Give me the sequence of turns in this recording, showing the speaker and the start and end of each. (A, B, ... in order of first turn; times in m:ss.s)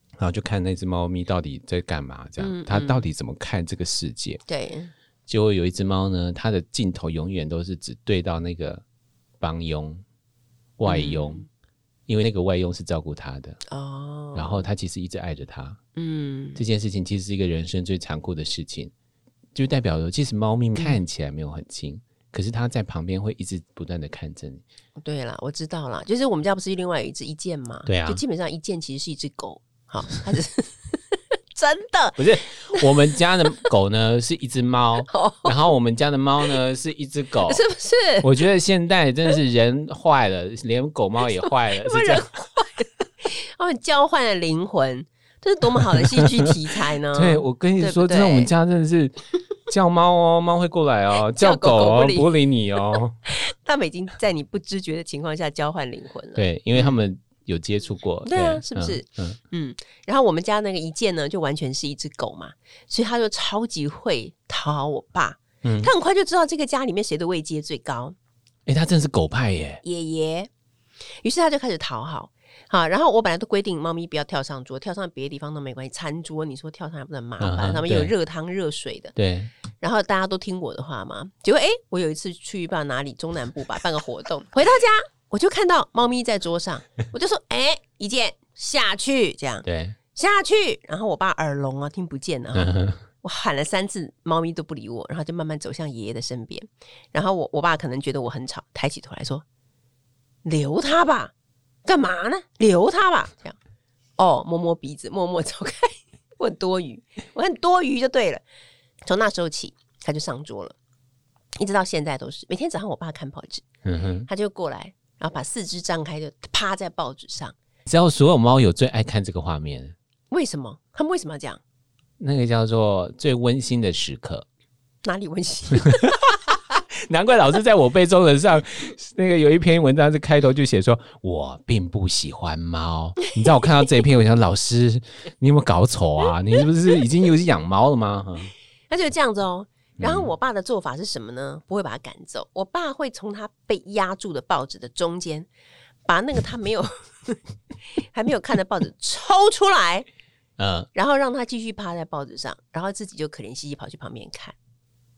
0:00.2-0:04.4 A
0:02.4-0:03.1 B
0:04.5-0:04.9 B
0:05.3-0:08.8 A
0:09.4-0:10.0 A
0:10.8-0:11.4 A
0:10.9-0:11.5 B
0:12.1-0:13.6 A
0:13.7-0:14.7 B
0:14.4-0:15.8 A
0:16.0-0:16.6 B
0:16.6-0:18.9 A
0:19.6-0:24.6 A
0:25.0-0:32.9 B
0:27.9-0:28.2 A
0:32.2-0:37.6 A
0:35.1-0:35.6 B
0:37.5-0:38.3 B
0:38.2-0:42.3 A
0:41.7-0:48.5 B
0:45.9-0:46.2 A
0:47.1-0:53.2 A
0:51.2-0:52.3 B
0:53.3-0:57.0 B
0:56.4-0:59.4 A
0:58.2-1:08.2 B
1:05.6-1:05.9 A
1:08.7-1:09.8 A
1:09.8-1:10.5 B
1:11.2-1:19.2 B
1:17.4-1:18.1 A
1:19.2-1:19.5 A
1:19.8-1:39.4 B
1:29.6-1:30.0 A
1:32.6-1:33.0 A
1:40.4-1:41.3 B
1:41.8-1:43.6 B
1:44.2-1:48.4 B
1:49.1-1:50.8 B
1:51.6-1:53.6 B
1:53.8-1:54.3 A
1:54.3-1:57.6 B
1:57.9-2:00.0 A
2:00.3-2:01.6 B
2:02.2-2:04.5 A
2:05.0-2:06.4 B
2:05.9-2:06.4 A
2:07.1-2:18.5 A
2:18.9-2:25.5 B
2:20.0-2:20.3 A
2:26.1-2:27.4 B
2:28.0-2:30.1 B
2:30.6-2:30.9 A
2:30.9-2:34.6 B